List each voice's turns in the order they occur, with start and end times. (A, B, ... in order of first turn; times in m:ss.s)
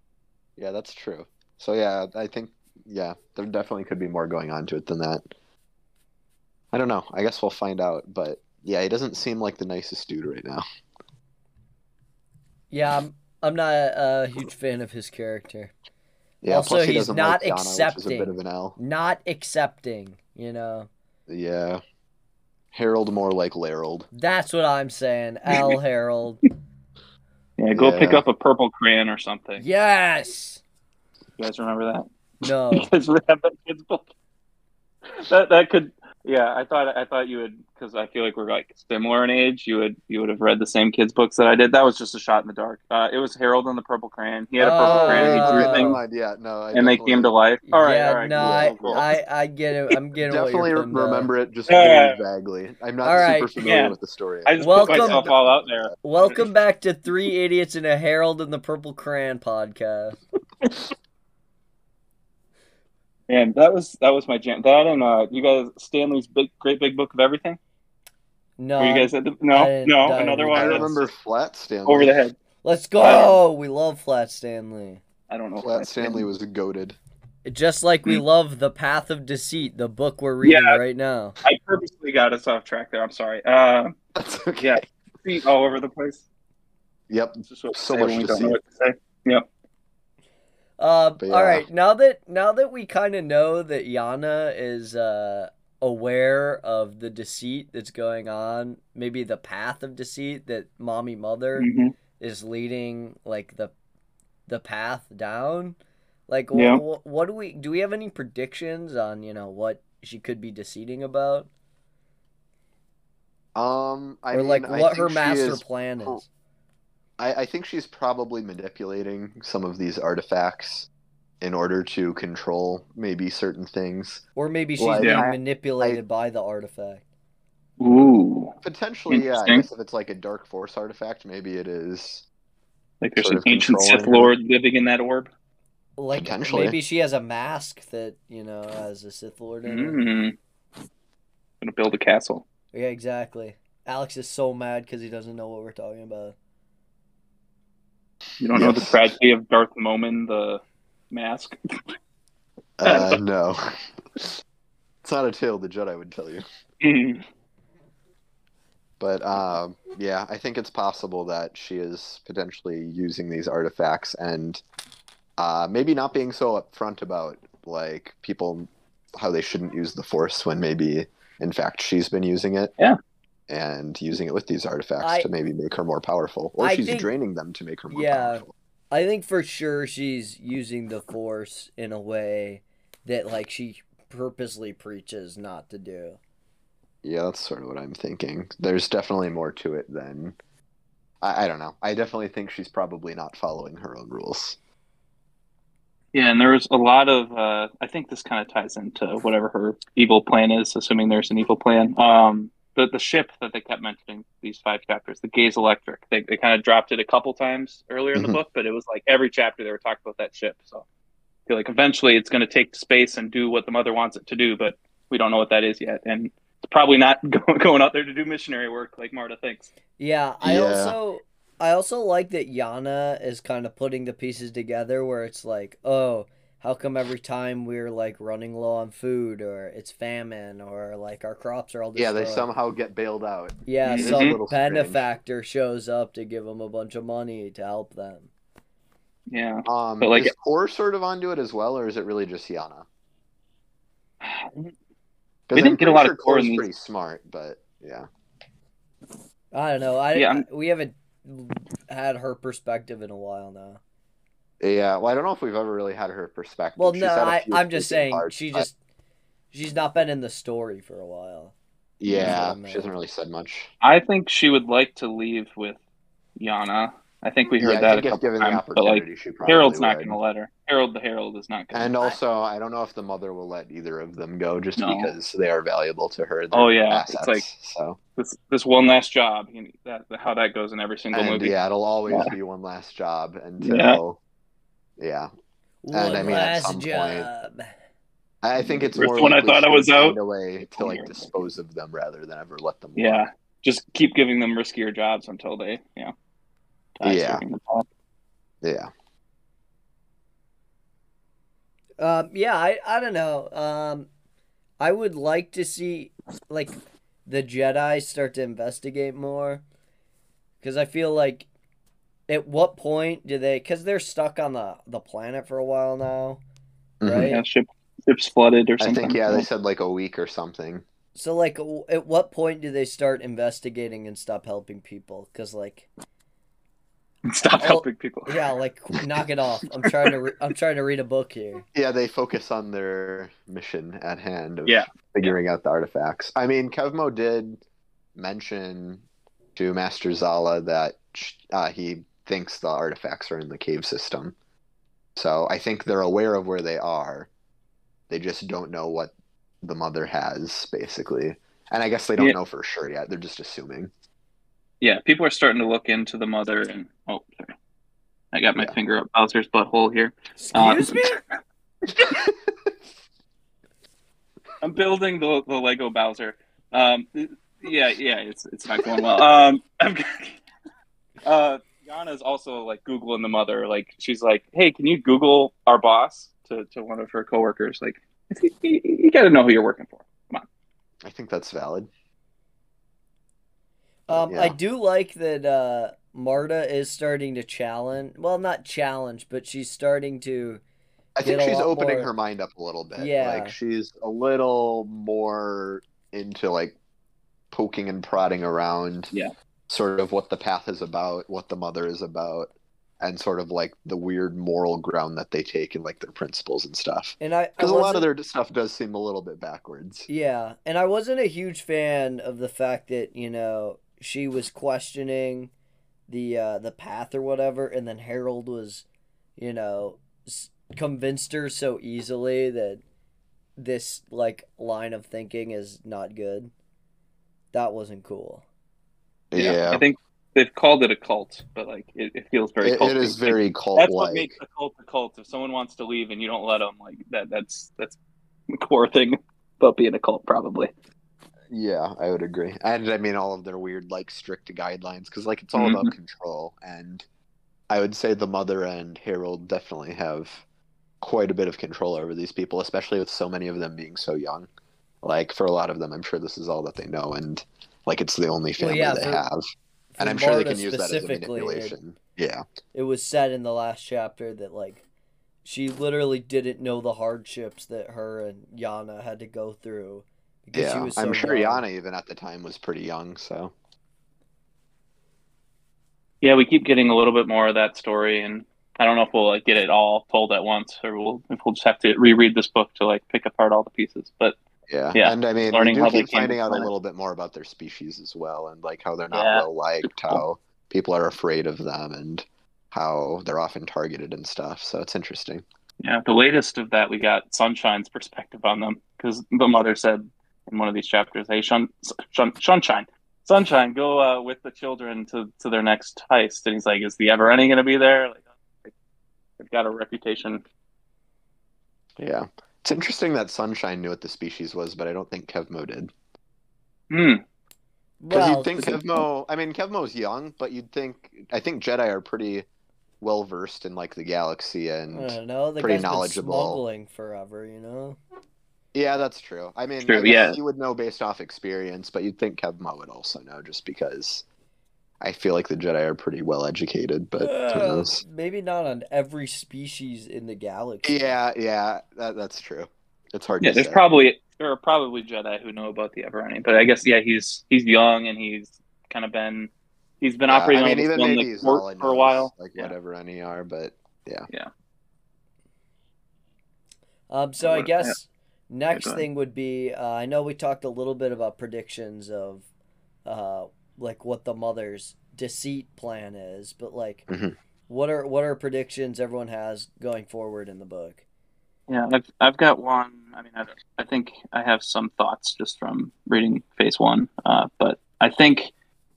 0:00.6-0:05.2 A
0:06.7-0:10.6 A
0:12.7-0:15.7 B
0:16.4-0:18.8 A
0:16.5-0:20.9 B
0:21.3-0:21.8 A
0:22.7-0:24.1 A
0:24.1-0:26.4 B
0:25.5-0:25.8 C
0:27.6-0:29.6 C
0:27.7-0:28.2 A
0:29.6-0:30.6 B
0:31.4-0:32.0 C
0:32.4-0:32.9 B
0:32.7-0:34.0 C
0:35.2-0:46.0 C
0:44.6-0:46.0 B
0:44.8-0:47.3 A
0:46.7-0:49.1 C
0:47.6-0:51.3 B
0:48.4-0:49.1 A
0:50.2-0:55.9 A
0:51.7-0:52.2 C
0:53.0-0:53.6 B
0:53.6-0:56.4 C
0:54.6-0:55.3 B
0:56.0-1:00.2 B
1:03.3-1:07.6 C
1:08.6-1:11.0 B
1:08.8-1:11.0 C
1:10.5-1:12.1 A
1:11.8-1:12.4 C
1:12.6-1:15.0 B
1:13.0-1:13.4 C
1:15.3-1:16.3 C
1:15.6-1:17.0 A
1:17.4-1:21.3 B
1:20.4-1:20.8 C
1:21.4-1:23.9 C
1:24.2-1:24.8 A
1:24.6-1:26.2 C
1:27.1-1:28.6 A
1:27.5-1:29.4 C
1:30.8-1:41.7 B
1:31.2-1:31.7 A
1:41.6-1:41.9 C
1:42.2-1:43.7 B
1:44.5-1:45.8 B
1:46.3-1:51.5 B
1:46.5-1:46.8 C
1:53.5-1:56.2 A
1:54.3-1:56.3 B
1:57.2-2:00.9 A
2:01.4-2:04.2 A
2:04.4-2:07.0 B
2:04.8-2:06.0 A
2:07.8-2:08.5 C
2:08.6-2:12.2 A
2:09.1-2:09.6 C
2:13.0-2:15.3 C
2:13.2-2:14.3 A
2:16.0-2:20.0 B
2:16.1-2:16.8 A
2:19.6-2:20.4 C
2:21.6-2:22.4 C
2:22.7-2:26.3 B
2:28.4-2:31.6 C
2:28.5-2:29.0 A
2:32.8-2:33.6 A
2:32.8-2:33.2 C
2:35.0-2:36.4 A
2:36.8-2:37.2 C
2:39.0-2:44.6 A
2:45.4-2:52.7 A
2:53.5-2:58.5 A
2:55.0-2:55.3 B
2:56.6-2:57.1 B
2:57.9-3:06.2 B
3:07.0-3:10.3 A
3:11.2-3:14.6 A
3:16.1-3:30.8 C
3:28.1-3:28.4 A
3:31.5-3:39.7 C
3:40.0-3:52.5 B
3:40.4-3:41.0 A
3:52.0-3:55.0 A
3:53.6-3:58.3 B
3:53.8-3:54.4 C
3:59.3-4:00.3 C
3:59.6-4:02.8 A
4:04.2-4:04.7 C
4:05.5-4:08.1 A
4:05.5-4:06.6 C
4:09.5-4:13.8 B
4:10.1-4:10.4 C
4:14.6-4:18.7 A
4:16.8-4:18.7 B
4:19.5-4:21.5 B
4:22.0-4:23.7 A
4:22.0-4:22.4 C
4:22.2-4:22.9 B
4:23.8-4:25.8 C
4:26.4-4:32.2 C
4:27.6-4:30.2 A
4:31.7-4:38.0 A
4:34.8-4:35.1 C
4:36.5-4:37.4 C
4:38.2-4:41.6 C
4:41.1-4:44.2 A
4:42.1-4:42.3 C
4:43.6-4:44.0 C
4:45.0-4:45.3 A
4:45.8-4:47.7 B
4:45.9-4:47.3 A
4:48.4-4:53.2 A
4:48.6-4:51.4 C
4:53.0-4:56.1 C
4:57.0-4:57.8 C
4:57.0-4:57.4 A
4:58.6-4:58.9 A
5:02.0-5:04.1 B
5:04.8-5:06.7 B
5:07.2-5:09.6 B
5:10.6-5:11.5 B
5:12.3-5:16.4 B
5:17.0-5:17.3 A
5:17.0-5:17.4 B
5:17.2-5:19.4 C
5:18.8-5:20.8 A
5:21.1-5:25.9 B
5:27.3-5:28.4 C
5:27.5-5:31.6 B
5:31.7-5:37.6 A
5:34.6-5:35.4 C
5:38.2-5:39.0 A
5:39.6-5:44.3 A
5:45.2-5:47.3 A
5:48.1-5:53.9 A
5:54.8-5:57.5 C
5:58.3-6:01.2 C
6:00.4-6:01.2 B
6:02.1-6:02.3 A
6:04.6-6:10.4 C
6:08.8-6:09.2 A
6:11.2-6:20.4 C
6:21.0-6:21.9 A
6:24.1-6:30.6 B
6:24.1-6:24.6 A
6:31.2-6:36.8 A
6:31.2-6:32.1 B
6:33.0-6:33.6 B
6:37.5-6:39.1 A
6:39.7-6:50.1 A
6:47.2-6:48.1 B
6:50.1-6:55.5 B
6:56.1-6:58.8 B
6:59.4-7:02.8 B
7:03.6-7:06.5 B
7:07.5-7:08.4 B
7:09.3-7:09.8 A
7:09.3-7:18.0 C
7:12.6-7:14.3 A
7:18.6-7:20.7 C
7:21.5-7:27.0 A
7:25.5-7:25.9 C
7:27.7-7:30.4 A
7:31.0-7:34.5 A
7:35.0-7:39.4 A
7:38.6-7:39.2 B
7:39.9-7:41.8 B
7:40.0-7:42.4 A
7:42.7-7:44.8 B
7:45.4-7:51.6 B
7:50.5-7:53.5 A
7:56.2-8:04.3 C
8:04.7-8:15.4 A
8:04.9-8:06.7 C
8:09.1-8:10.2 C
8:15.8-8:28.7 C
8:29.4-8:30.4 C
8:32.0-8:35.9 A
8:36.9-8:37.2 C
8:38.0-8:39.0 B
8:38.1-8:42.4 A
8:43.0-8:46.6 A
8:44.9-8:48.0 B
8:48.7-8:54.2 A
8:49.8-8:50.4 C
8:55.0-8:58.0 A
8:57.2-9:01.1 B
9:00.8-9:03.8 A
9:03.4-9:09.5 C
9:10.0-9:12.7 C
9:10.3-9:14.3 A
9:17.1-9:22.4 B
9:17.4-9:17.9 C
9:18.7-9:19.0 C
9:23.0-9:27.1 B
9:27.1-9:27.3 A
9:27.7-9:31.0 B
9:31.7-9:38.5 C